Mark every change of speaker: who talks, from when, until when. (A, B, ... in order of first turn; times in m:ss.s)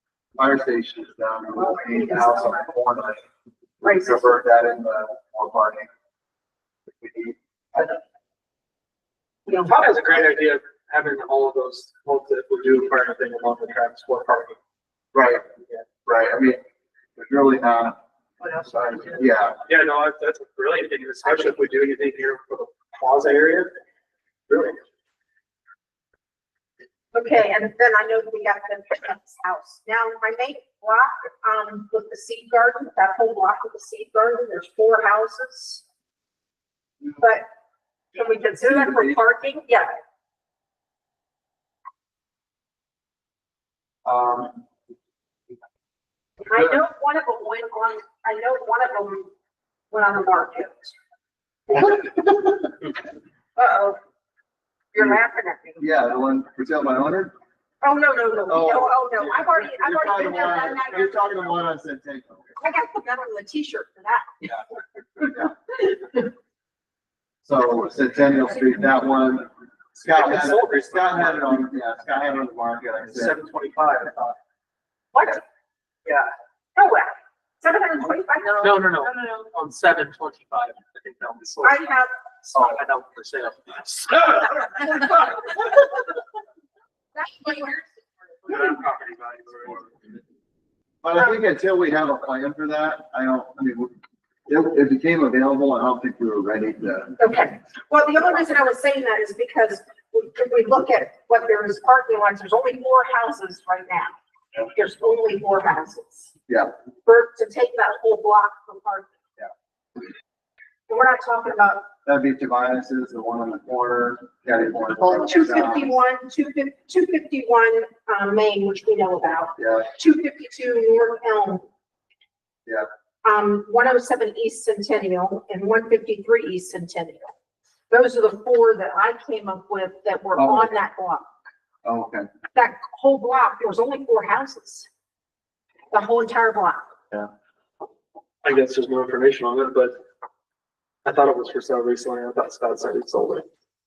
0:00.4-0:03.2 A
0:01.5-0:02.7 B
0:03.8-0:04.3 B
0:03.9-0:05.9 A
0:07.0-0:08.0 A
0:09.5-0:09.7 B
0:09.5-0:14.6 C
0:15.1-0:15.4 A
0:16.0-0:16.6 A
0:17.2-0:18.0 A
0:18.6-0:19.6 A
0:19.6-0:23.7 C
0:24.5-0:24.8 C
0:27.1-0:35.8 B
0:37.2-0:37.5 B
0:38.1-0:39.9 B
0:38.6-0:39.2 A
0:44.0-0:44.5 A
0:46.4-0:49.3 B
0:49.9-0:50.9 B
0:51.7-0:52.8 B
0:53.6-0:54.0 B
0:54.9-0:55.9 B
0:55.8-0:57.3 A
0:57.8-1:01.5 B
0:58.5-1:02.5 A
1:02.6-1:04.5 B
1:07.4-1:13.4 A
1:10.0-1:11.6 C
1:13.1-1:14.4 C
1:15.1-1:15.4 B
1:16.0-1:16.3 C
1:16.8-1:19.4 B
1:18.4-1:21.9 C
1:21.6-1:22.1 B
1:22.4-1:25.6 C
1:27.1-1:27.9 B
1:28.4-1:29.9 C
1:28.5-1:28.7 B
1:31.0-1:33.9 A
1:34.5-1:37.2 A
1:37.2-1:46.3 B
1:46.5-1:46.7 A
1:47.0-1:49.1 B
1:50.9-1:51.9 B
1:52.0-1:56.0 A
1:55.0-2:01.6 B
1:59.6-1:59.9 A
2:03.2-2:07.3 B
2:07.9-2:11.3 B
2:10.4-2:10.7 A
2:11.8-2:12.3 A
2:12.5-2:14.9 B
2:15.9-2:16.9 B
2:18.4-2:20.0 C
2:21.0-2:23.5 C